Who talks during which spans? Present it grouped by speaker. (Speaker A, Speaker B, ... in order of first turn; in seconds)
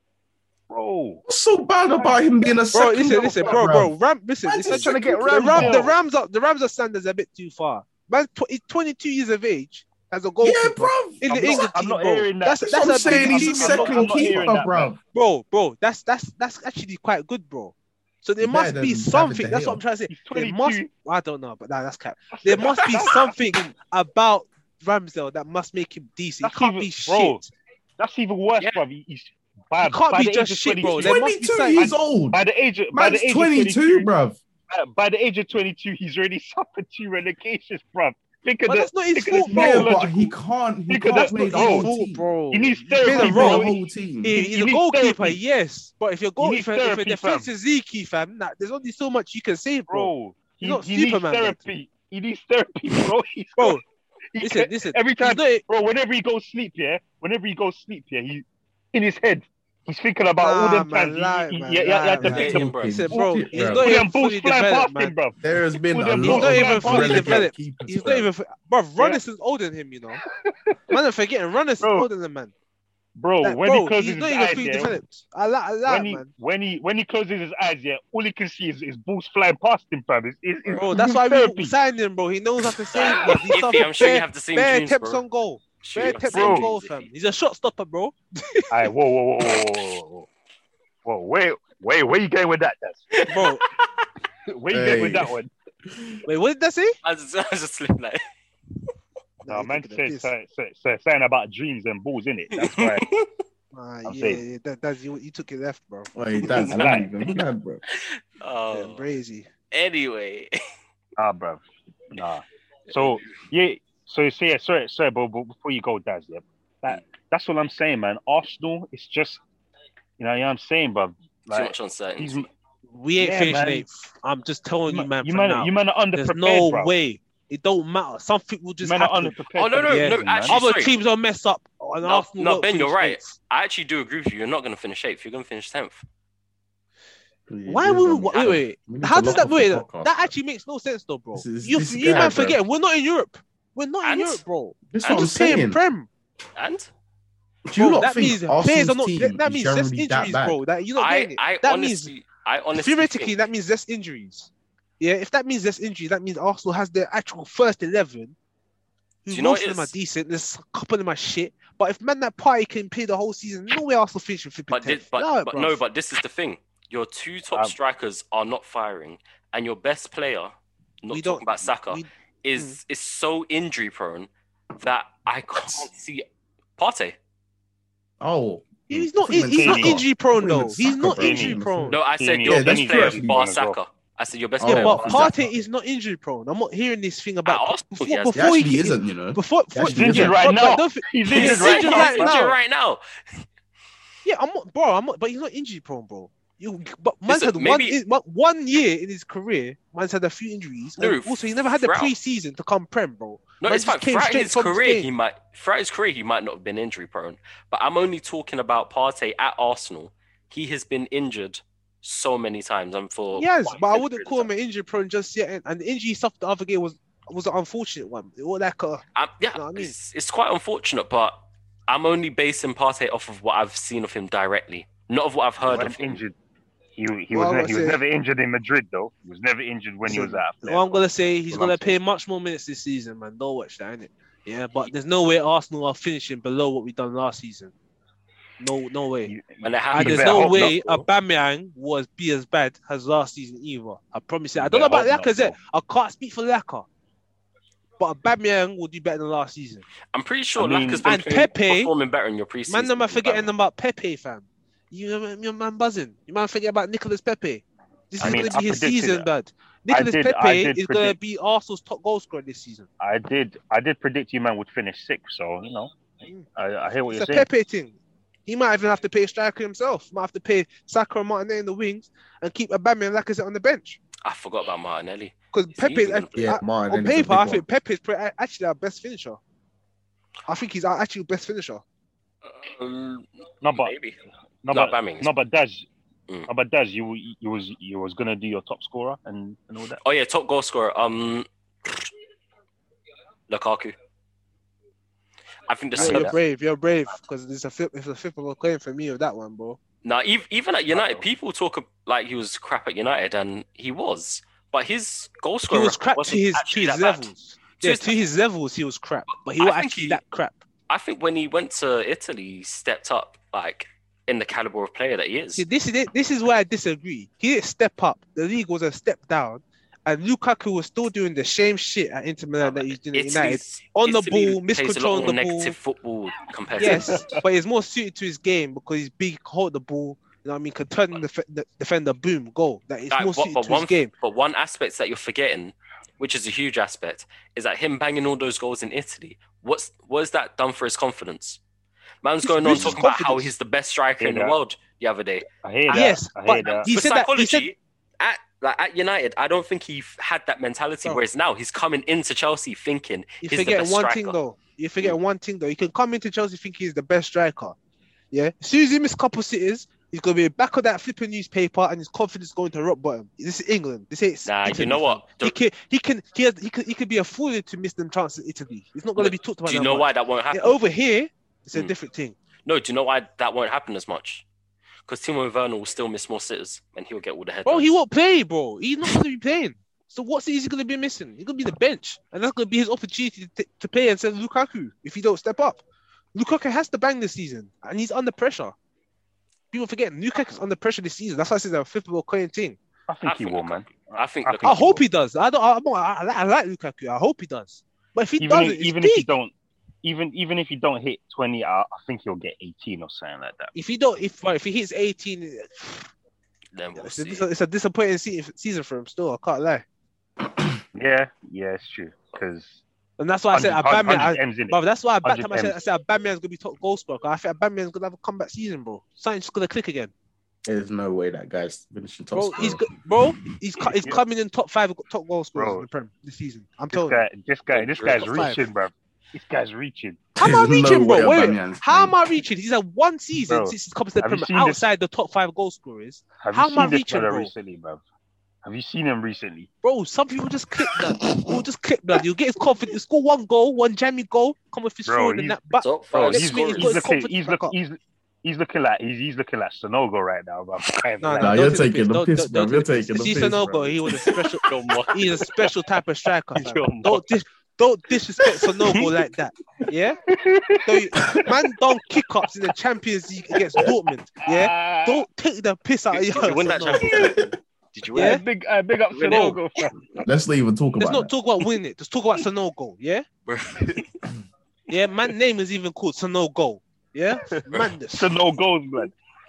Speaker A: 0.7-1.2, 2.0-2.2, 3.1-3.7, 4.7-6.0, 11.2-14.9, 20.1-20.9, 22.4-23.3, 26.4-27.4, 28.0-31.2, 31.8-34.1, 34.7-40.3, 40.9-41.9, 42.5-43.8, 44.3-45.4, 46.4-47.5, 49.9-53.8, 54.3-62.6, 63.5-65.4, 65.9-67.5, 70.4-71.0, 71.8-72.1, 73.2-74.9, 75.8-81.7, 82.9-83.4, 86.3-86.7, 88.7-90.3, 91.0-93.1, 94.5-95.5, 99.5-103.0, 104.0-104.4, 106.6-107.1, 111.2-119.4, 120.2-122.5, 123.2-123.8, 124.9-126.9, 128.8-130.6, 179.5-180.0, 181.1-183.8, 189.8-192.4, 225.6-226.3, 227.0-232.0, 239.2-241.1, 244.6-245.5, 250.6-251.4, 258.2-259.3, 259.9-261.1, 263.0-265.9, 266.5-267.5, 283.6-283.9, 284.6-285.9, 286.5-290.0, 295.9-296.3, 300.9-301.2, 326.8-327.4, 342.6-343.0, 344.2-344.6, 345.6-346.9, 393.1-395.0, 398.4-403.7, 410.9-412.8, 413.5-415.8, 425.5-425.9, 426.9-430.3, 433.4-434.9, 436.4-438.0, 438.6-439.7, 445.1-445.6, 446.1-451.7, 460.3-461.4, 464.4-465.2, 468.1-469.9, 478.1-479.1
Speaker B: 1.3-5.8, 10.4-11.7, 12.6-15.0, 18.4-19.8, 31.0-32.4, 32.9-34.4, 39.4-42.3, 43.0-44.3, 62.2-63.9, 65.4-68.3, 94.7-95.4, 95.9-96.2, 106.1-107.8, 137.5-140.3, 141.3-142.6, 144.9-145.8, 147.6-150.6, 178.2-183.4, 184.6-185.4, 188.3-190.4, 276.4-277.6, 410.5-410.8, 420.6-422.8, 430.4-432.2, 451.4-454.2, 466.9-467.5, 470.2-471.3
Speaker C: 2.7-14.5, 15.1-27.5, 29.8-31.9, 38.7-40.0, 41.5-43.7, 44.2-51.6, 53.6-53.8, 54.4-55.6, 60.4-65.1, 66.2-70.2, 70.9-72.5, 73.4-76.3, 80.7-88.9, 93.3-93.6, 96.2-97.0, 99.5-100.3, 103.7-106.1, 108.7-109.5, 122.9-133.3, 137.7-146.1, 147.8-152.1, 152.7-158.3, 159.2-165.8, 171.1-172.8, 178.9-182.0, 184.6-192.6, 194.2-205.1, 213.3-219.0, 219.5-219.9, 227.3-228.0, 230.0-237.7, 238.6-239.3, 239.9-246.8, 248.0-249.8, 251.0-251.9, 252.7-262.9, 267.1-274.0, 275.5-279.4, 280.4-281.8, 295.9-299.8, 305.7-310.6, 315.6-325.7, 326.8-334.1, 342.4-343.5, 345.9-347.7, 353.4-357.7, 358.3-372.3, 377.6-385.8, 386.3-388.7, 389.7-392.8, 394.6-399.3, 403.7-406.1, 406.9-409.8, 413.2-420.1, 422.3-427.2, 428.2-428.6, 430.4-437.5, 439.8-447.7, 451.2-460.2, 460.9-467.2, 468.1-468.4, 469.2-469.6, 471.0-473.2, 474.9-478.3
Speaker D: 62.2-63.1, 82.9-85.2, 85.8-87.1, 93.1-94.0, 97.0-98.2, 102.6-103.3, 106.4-109.0, 109.7-110.5, 121.5-122.4, 129.6-130.9, 132.0-136.0, 138.3-138.6, 144.0-144.4, 145.0-145.3, 146.6-146.9, 151.0-153.3, 159.3-159.9, 164.7-174.3, 174.8-176.2, 176.8-177.2, 181.9-185.2, 187.4-188.4, 191.2-193.4, 197.3-198.0, 201.0-202.1, 203.6-214.5, 219.1-221.3, 221.9-226.2, 239.6-240.7, 250.1-253.5, 258.2-258.6, 274.2-276.5, 282.4-284.2, 284.7-285.3, 290.0-292.1, 293.5-293.9, 295.7-296.4, 300.0-307.3, 307.8-308.1, 309.6-310.2, 310.9-315.6, 322.6-327.4, 333.1-341.6, 342.2-346.0, 346.6-354.4, 364.4-365.6, 369.2-370.8, 372.6-374.4, 375.1-377.9, 393.2-394.9, 406.7-407.4, 427.7-428.5, 445.8-447.0, 454.6-455.7, 456.5-457.2, 466.1-468.4, 469.1-469.6, 473.5-474.2